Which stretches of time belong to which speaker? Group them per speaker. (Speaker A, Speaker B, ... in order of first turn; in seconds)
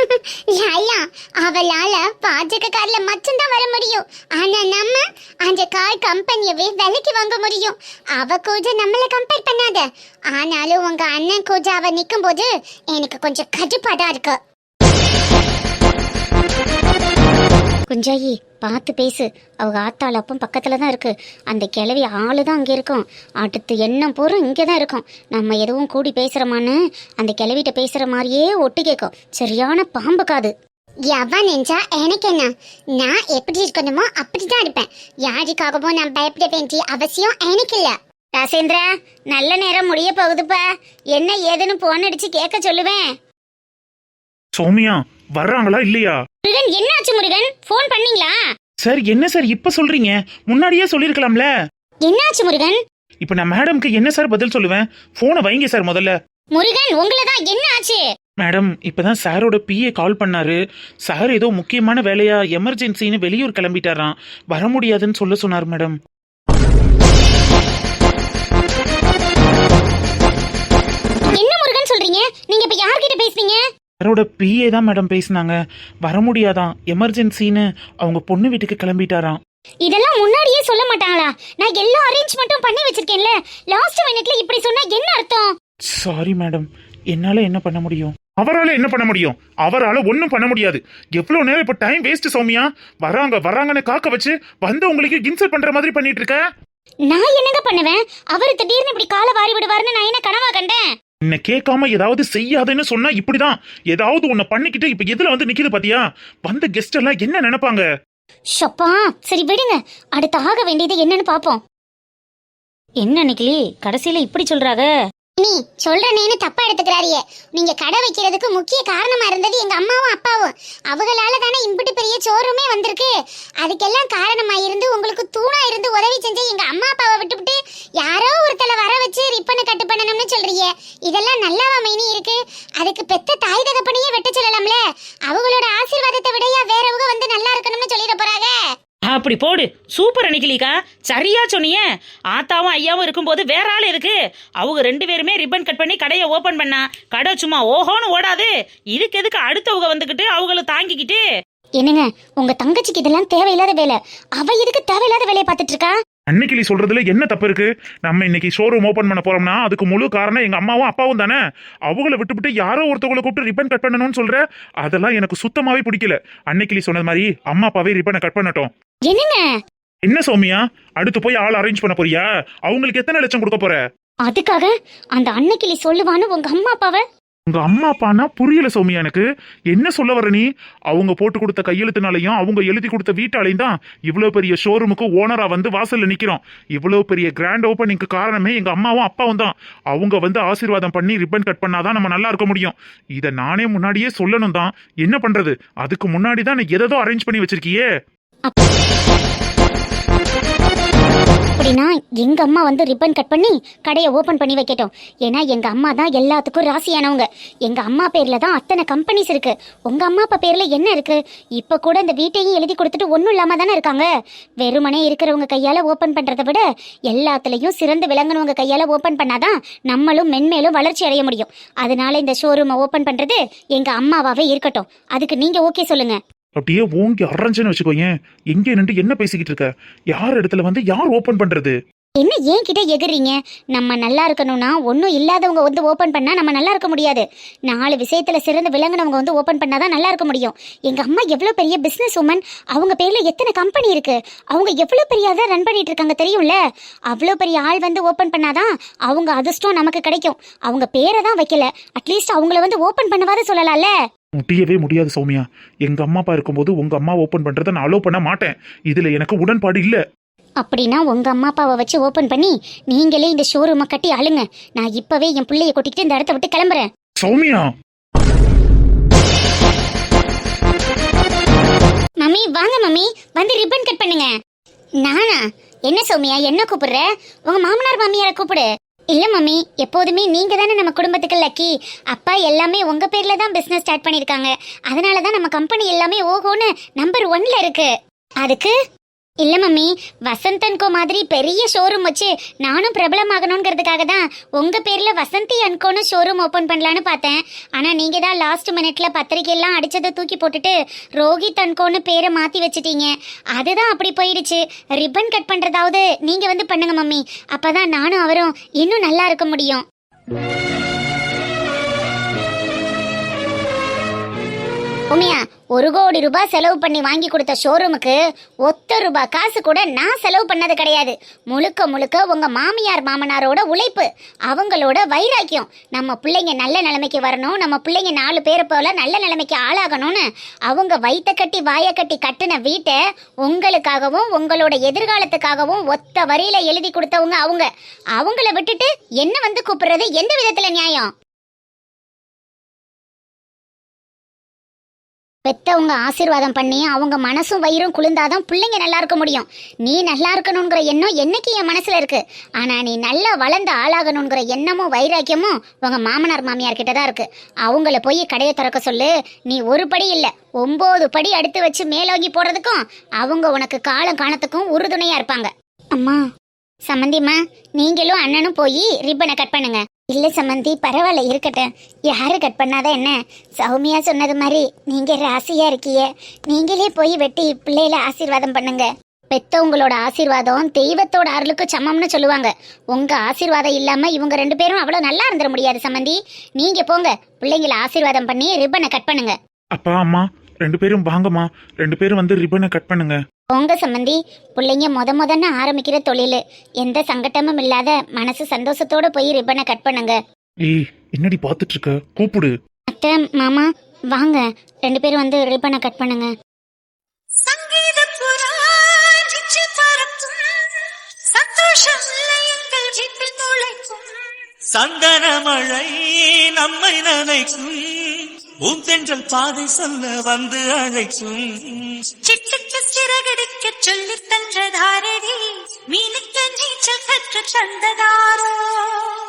Speaker A: 0.5-14.4, 17.9-30.5, 31.1-40.6, 41.1-43.1, 46.4-48.4, 52.1-52.8, 56.5-58.0, 71.3-73.6, 79.9-85.5, 97.1-100.8, 108.6-111.6, 115.4-138.6, 151.8-155.9, 169.1-169.4, 174.2-177.0, 201.6-214.1, 214.6-226.2, 232.2-246.6, 247.1-253.9, 260.6-266.9, 272.2-274.3, 275.0-287.9, 288.4-288.7, 289.4-309.8, 315.1-341.1, 345.4-366.2, 366.9-389.3, 393.5-400.2, 402.9-406.3
Speaker B: 44.6-46.1, 48.8-51.5, 53.2-56.1, 58.4-66.0, 74.0-79.4, 86.0-96.4, 101.3-107.8, 156.3-168.7, 170.1-173.8, 177.5-179.2, 179.7-197.8, 226.6-231.8, 254.4-260.0, 267.2-267.6, 389.8-393.1, 400.6-402.5
Speaker C: 113.0-114.9, 139.1-141.8, 142.3-151.2
Speaker D: 407.5-410.6, 411.3-414.1, 422.3-425.4, 425.9-428.6
Speaker E: 414.8-415.9, 416.5-417.8, 418.7-421.4